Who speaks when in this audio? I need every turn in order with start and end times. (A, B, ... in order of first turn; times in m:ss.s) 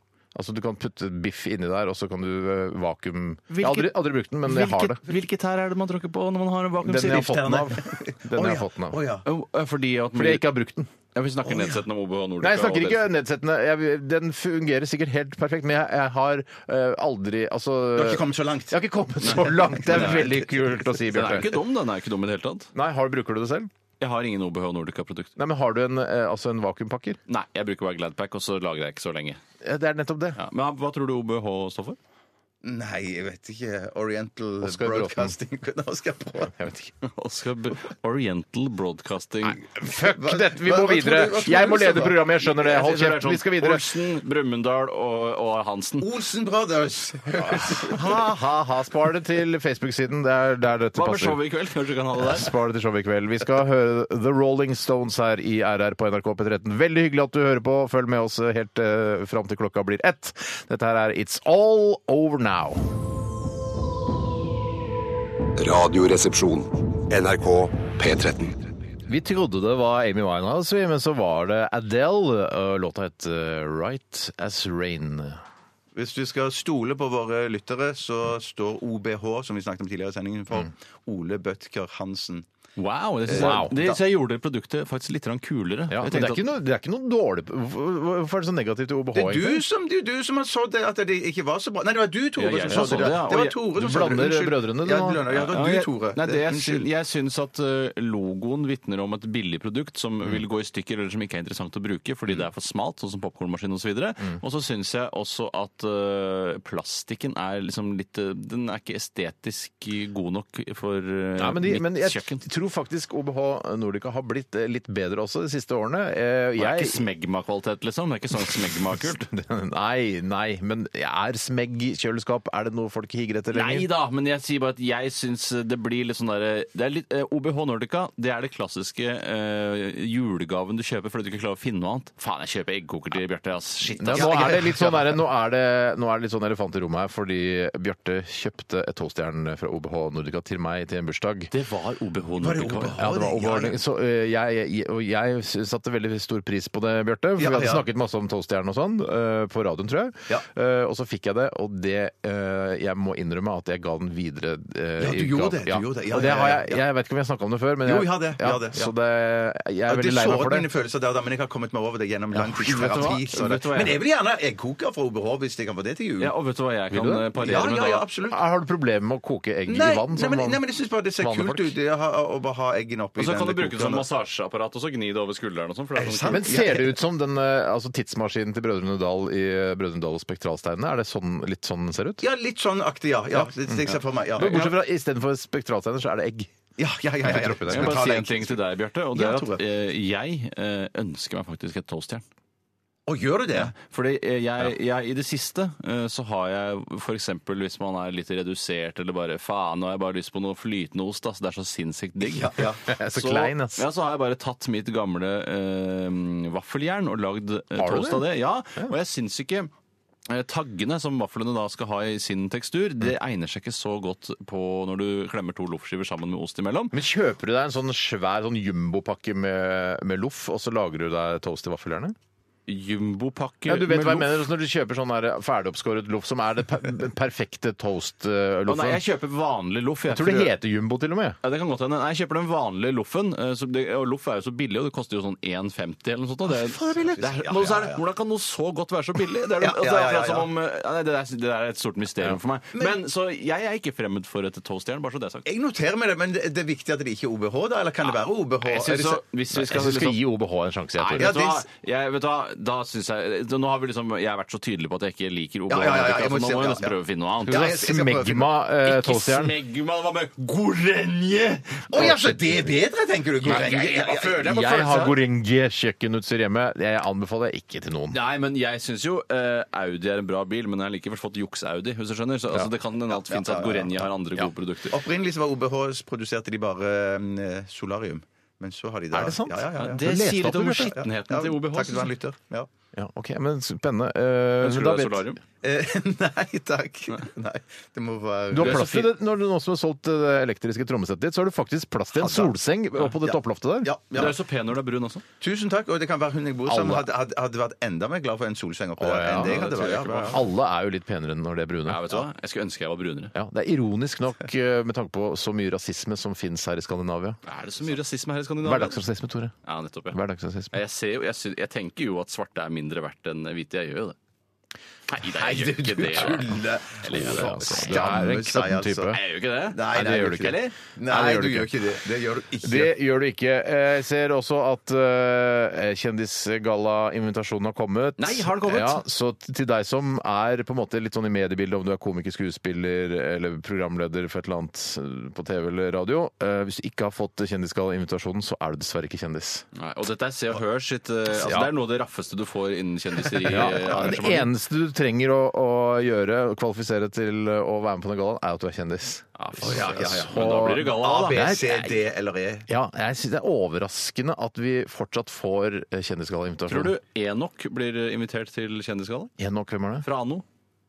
0:00.3-0:05.0 A
0:03.5-0:07.3 B
0:06.8-0:09.0 A
0:06.9-0:09.2 C
0:09.2-0:10.5 B
0:10.1-0:10.9 A
0:11.1-0:13.0 B
0:11.4-0:11.8 C
0:12.4-0:21.5 A
0:17.9-0:20.5 C
0:19.2-0:20.2 B
0:21.1-0:22.7 B
0:22.7-0:23.7 A
0:24.0-0:25.3 B
0:25.4-0:27.2 A
0:27.3-0:29.4 B
0:29.6-0:30.4 A
0:30.4-0:32.0 B
0:32.6-0:36.5 C
0:34.6-0:35.4 A
0:36.5-0:36.9 A
0:37.0-0:39.6 B
0:39.6-0:43.8 A
0:39.8-0:42.3 C
0:42.5-0:46.1 B
0:46.0-0:48.0 C
0:47.4-0:51.4 A
0:47.9-0:48.2 B
0:50.9-0:52.5 B
0:52.2-1:02.8 A
1:05.6-1:08.6 D
1:09.1-1:15.4 A
1:15.9-1:22.5 C
1:22.8-1:26.4 B
1:23.3-1:24.0 C
1:23.3-1:23.7 A
1:25.9-1:29.6 A
1:29.1-1:36.9 C
1:32.4-1:33.6 B
1:32.7-1:35.2 A
1:35.3-1:52.4 B
1:51.4-1:57.0 A
1:56.6-1:59.3 B
1:59.0-2:03.9 A
2:03.5-2:15.0 B
2:14.0-2:21.5 A
2:14.1-2:14.9 C
2:21.5-2:23.0 B
2:22.4-2:23.8 C
2:23.0-2:40.7 A
2:27.4-2:27.8 C
2:35.0-2:36.8 C
2:37.8-2:38.9 C
2:39.9-2:46.3 C
2:42.4-2:42.8 A
2:42.6-2:44.0 B
2:46.2-2:48.0 B
2:46.9-2:47.3 A
2:47.4-2:48.4 C
2:48.3-2:50.6 A
2:49.7-2:54.0 C
2:51.2-2:51.7 A
2:53.2-2:56.5 B
2:55.9-2:57.0 C
2:56.3-3:02.2 A
3:02.2-3:04.7 C
3:03.4-3:06.5 A
3:06.8-3:09.6 C
3:07.2-3:08.0 A
3:07.7-3:12.2 B
3:13.1-3:13.7 C
3:13.6-3:22.5 B
3:22.2-3:22.8 C
3:22.8-3:23.8 A
3:23.1-3:29.7 B
3:27.8-3:28.9 A
3:30.3-3:36.9 B
3:36.9-3:42.2 A
3:42.7-3:44.3 B
3:43.7-3:49.0 A
3:48.7-3:50.5 B
3:50.1-3:51.4 A
3:51.4-4:05.4 B
3:56.8-3:58.0 C
3:59.6-4:00.5 C
4:05.4-4:09.2 C
4:08.1-4:10.2 B
4:09.5-4:11.3 A
4:11.0-4:17.8 B
4:11.2-4:11.6 C
4:15.7-4:18.5 C
4:17.5-4:19.6 A
4:18.8-4:22.2 B
4:21.9-4:24.6 C
4:21.9-4:22.4 A
4:23.4-4:25.2 B
4:24.4-4:28.2 A
4:28.1-4:35.0 B
4:33.1-4:34.0 C
4:34.9-4:42.7 C
4:39.1-4:40.9 A
4:39.8-4:42.1 B
4:42.9-4:45.3 A
4:44.6-4:45.4 B
4:45.6-4:48.9 C
4:48.5-4:53.9 A
4:48.6-4:49.1 B
4:52.1-4:52.5 C
4:53.2-4:54.4 C
4:54.1-4:55.2 B
4:55.4-5:00.4 C
4:56.6-4:57.1 A
4:59.0-4:59.6 A
4:59.3-5:00.4 B
5:00.3-5:02.2 A
5:01.8-5:03.3 B
5:03.3-5:07.4 A
5:07.4-5:09.0 B
5:08.6-5:09.5 A
5:09.6-5:10.2 B
5:10.1-5:10.7 A
5:10.7-5:14.2 B
5:15.1-5:18.1 B
5:15.4-5:19.2 C
5:17.1-5:19.2 A
5:19.1-5:20.7 B
5:19.7-5:22.9 C
5:19.9-5:21.7 A
5:22.6-5:39.6 A
5:28.2-5:29.0 B
5:39.7-5:44.5 B
5:41.3-5:41.7 A
5:43.4-5:52.1 A
5:43.6-5:44.0 C
5:49.4-5:51.4 B
5:49.6-5:52.7 C
5:52.7-5:56.9 A
5:56.7-5:59.3 B
5:59.4-6:00.0 A
6:00.0-6:00.4 B